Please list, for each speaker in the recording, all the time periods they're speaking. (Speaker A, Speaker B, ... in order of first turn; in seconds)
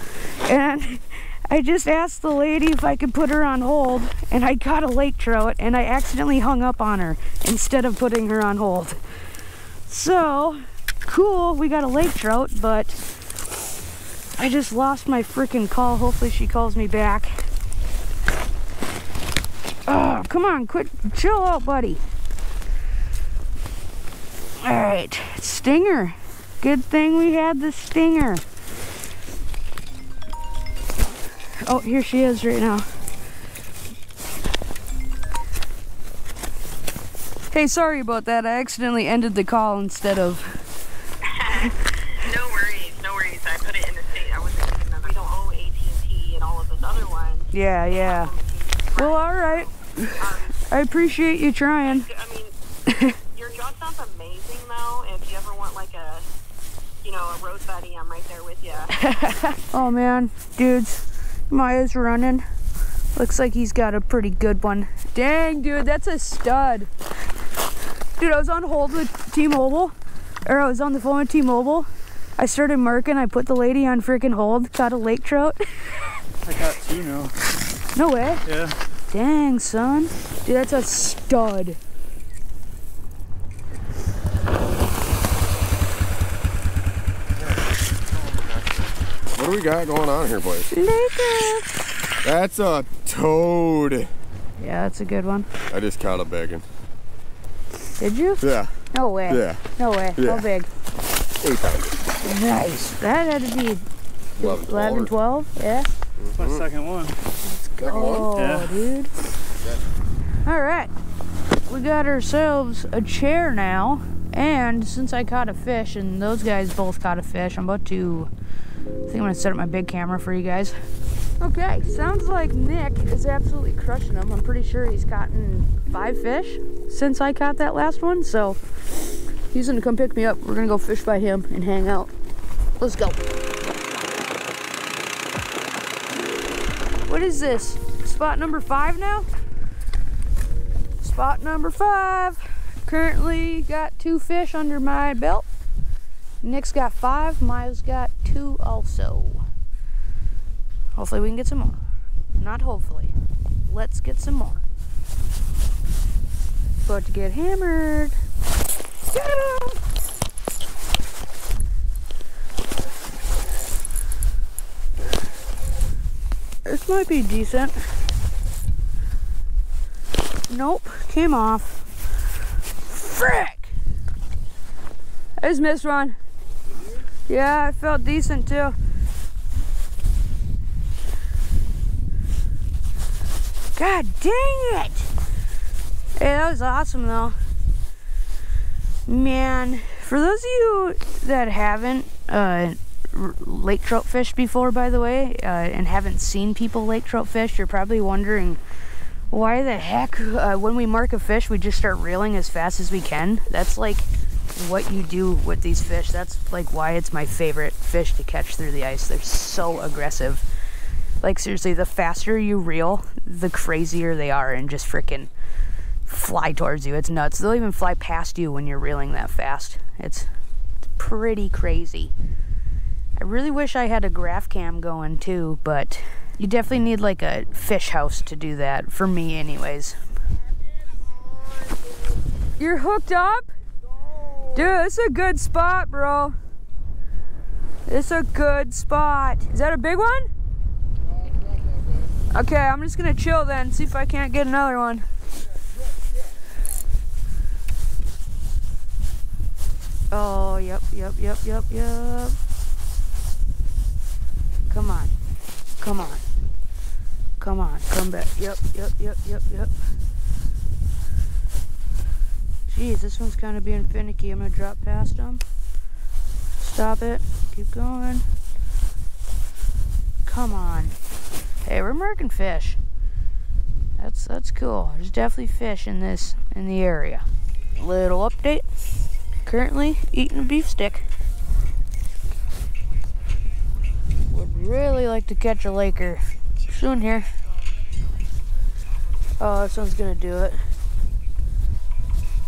Speaker A: 0.4-9.0, 9.9-13.0, 14.4-17.4, 19.9-22.0, 24.6-28.4, 31.6-32.9, 37.5-40.5, 47.5-48.3, 49.0-50.2, 50.7-52.1, 59.1-62.5, 63.1-66.9, 68.2-69.9, 70.5-75.9, 77.9-78.4, 79.1-81.8, 90.7-91.7, 94.6-95.5, 98.0-98.4, 98.9-100.7, 102.2-103.8, 104.4-105.9, 107.5-109.1, 110.4-110.9, 111.7-118.3, 119.1-120.8, 121.4-128.6, 129.5-132.1, 132.8-133.2, 137.1-139.3, 141.0-145.5, 146.4-149.4, 150.9-151.8, 152.4-153.1, 153.7-154.6, 156.9-158.2, 159.1-159.8, 166.7-167.8, 170.5-171.8, 172.9-173.8, 175.4-176.2, 177.3-178.8, 183.8-185.1, 186.2-187.4, 189.1-198.6, 199.3-210.4, 211.2-215.3, 216.1-220.3, 221.0-222.1, 223.2-230.0, 232.6-233.5, 234.5-236.3, 237.9-240.3, 242.3-245.1, 250.1-252.4, 254.7-255.1, 255.8-256.2, 257.4-259.7, 262.7-265.4, 266.6-268.2, 270.2-270.9, 271.7-272.8, 274.0-277.2, 277.8-278.7, 279.4-281.0, 284.3-287.3, 289.4-290.6
Speaker B: 41.4-50.6, 51.8-52.5, 53.3-56.2, 57.0-58.9
Speaker C: 76.5-77.3, 78.5-78.8, 106.4-107.2, 108.4-108.7
Speaker D: 87.4-90.8, 92.2-94.1, 95.7-96.7, 98.4-98.8, 99.3-99.6, 100.2-100.5, 101.4-102.0, 104.4-105.2, 106.2-106.7, 107.8-108.4, 109.6-109.8